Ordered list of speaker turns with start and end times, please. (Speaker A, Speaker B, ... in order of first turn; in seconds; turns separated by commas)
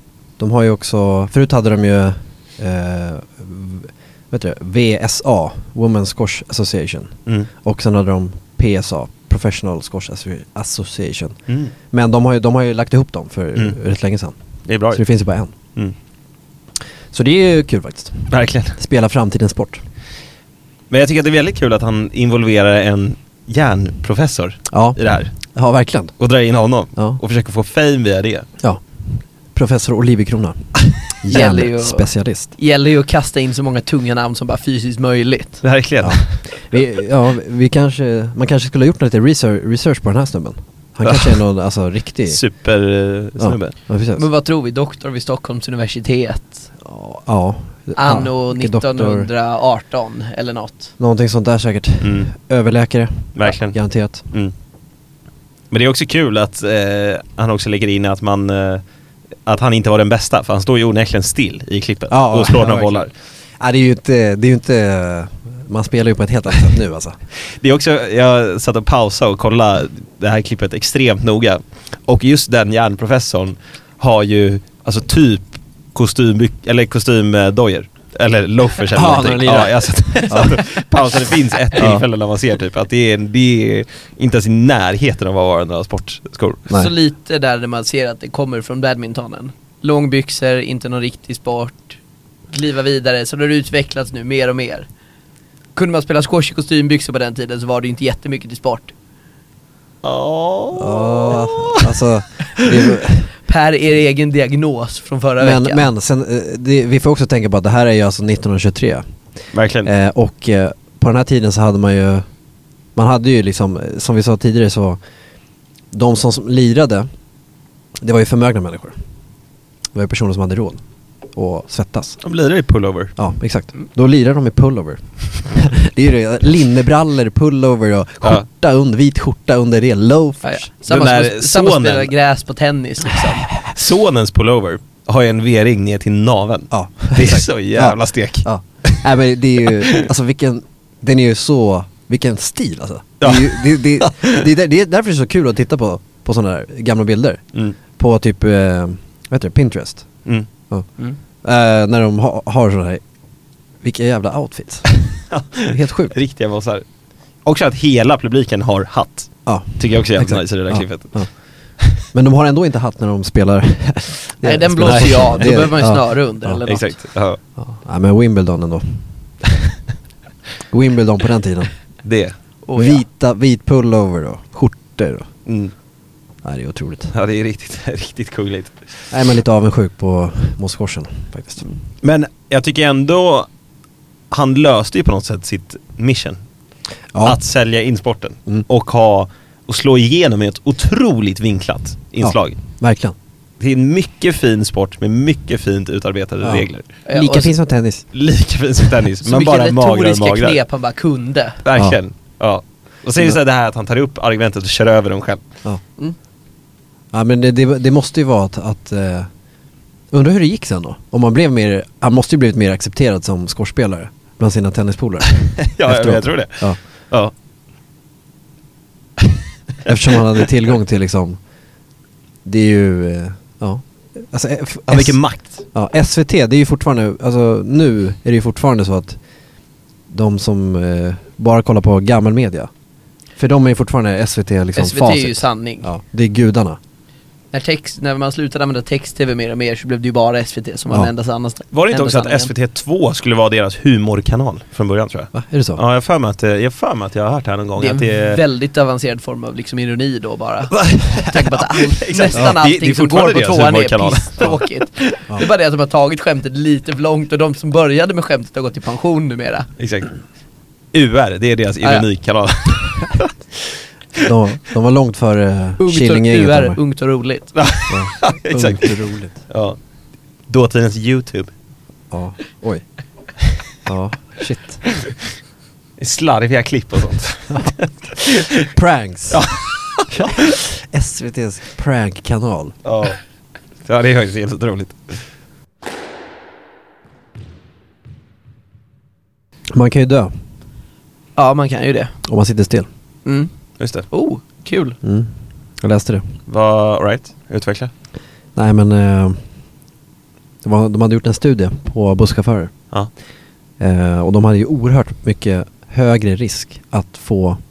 Speaker A: 0.4-11.3, Speaker A: 11.9-14.3, Speaker B: 14.7-15.0, Speaker A: 14.9-15.5, Speaker A: 17.1-19.8, Speaker B: 18.3-18.8, Speaker B: 20.9-25.3, Speaker A: 24.7-26.1, Speaker B: 26.2-28.5, Speaker A: 29.5-32.5, Speaker C: 31.3-35.6, Speaker B: 35.6-36.4, Speaker A: 36.0-42.4, Speaker B: 41.0-41.4, Speaker B: 42.3-43.7, Speaker A: 43.4-44.2, Speaker C: 44.1-46.6, Speaker A: 46.8-49.3, Speaker C: 47.9-50.9, Speaker A: 51.0-54.2, Speaker B: 52.0-52.3, Speaker B: 53.3-53.8, Speaker B: 55.7-58.8, Speaker B: 59.5-63.1, Speaker A: 62.1-67.2, Speaker B: 67.6-86.7, Speaker A: 78.9-80.6, Speaker A: 81.8-82.0, Speaker C: 86.7-92.0, Speaker C: 92.5-94.9, Speaker C: 95.7-98.9, Speaker B: 100.0-101.9, Speaker A: 100.8-103.3, Speaker C: 103.5-105.8, Speaker A: 105.4-109.0, Speaker B: 109.5-109.9, Speaker A: 109.8-112.2, Speaker A: 113.0-115.0, Speaker A: 115.9-117.1, Speaker A: 118.0-118.9, Speaker A: 119.9-120.8, Speaker A: 121.3-122.2, Speaker B: 122.2-123.2, Speaker A: 123.2-130.7, Speaker C: 130.4-133.5, Speaker B: 130.9-132.1, Speaker B: 133.6-139.1, Speaker A: 136.7-147.4, Speaker B: 139.6-140.1, Speaker B: 143.2-144.4, Speaker A: 147.9-150.1, Speaker A: 151.4-153.0, Speaker A: 153.8-154.9, Speaker B: 154.9-156.8, Speaker A: 155.6-156.1, Speaker B: 157.4-161.2, Speaker A: 159.4-161.3, Speaker A: 162.1-166.6, Speaker C: 164.4-166.9, Speaker B: 164.8-165.5, Speaker B: 166.7-167.4, Speaker A: 167.6-169.0, Speaker A: 170.7-171.7, Speaker B: 172.0-172.3, Speaker C: 172.7-173.0, Speaker A: 172.7-175.3, Speaker B: 175.4-175.7, Speaker A: 176.4-177.1, Speaker B: 177.1-178.8, Speaker A: 179.1-181.6, Speaker B: 182.0-183.5, Speaker B: 184.3-186.4, Speaker A: 187.1-187.4, Speaker B: 187.2-192.6, Speaker A: 192.2-193.1, Speaker B: 193.6-196.8, Speaker A: 196.4-198.0, Speaker C: 197.1-197.5, Speaker B: 198.1-200.6, Speaker C: 199.2-201.6, Speaker B: 201.6-205.4, Speaker A: 207.1-209.3, Speaker A: 210.1-216.8, Speaker B: 215.3-217.3, Speaker A: 219.8-221.4, Speaker A: 222.4-225.2, Speaker B: 224.9-225.6, Speaker A: 225.7-229.2, Speaker A: 230.1-232.7, Speaker A: 233.4-236.8, Speaker C: 234.8-235.9, Speaker C: 237.5-242.5, Speaker B: 241.7-248.4, Speaker A: 245.3-245.8, Speaker C: 247.8-259.7, Speaker B: 250.7-255.1, Speaker B: 259.8-260.1, Speaker B: 260.9-263.3, Speaker A: 264.2-266.8, Speaker C: 265.8-267.5, Speaker B: 267.5-269.8, Speaker A: 267.9-269.4, Speaker B: 270.5-271.5, Speaker A: 272.1-272.8, Speaker A: 273.9-274.8, Speaker B: 276.0-278.7, Speaker A: 278.7-279.4, Speaker B: 279.3-280.5, Speaker A: 280.1-282.7, Speaker B: 282.8-283.2, Speaker B: 283.8-285.2, Speaker A: 289.7-290.3, Speaker C: 291.4-292.1, Speaker A: 292.2-292.9, Speaker C: 293.2-293.5, Speaker B: 293.8-294.1, Speaker C: 294.1-295.0, Speaker A: 295.0-295.3, Speaker A: 295.8-296.2, Speaker B: 296.5-297.9, Speaker A: 298.6-299.4, Speaker A: 300.6-302.7, Speaker A: 303.8-307.6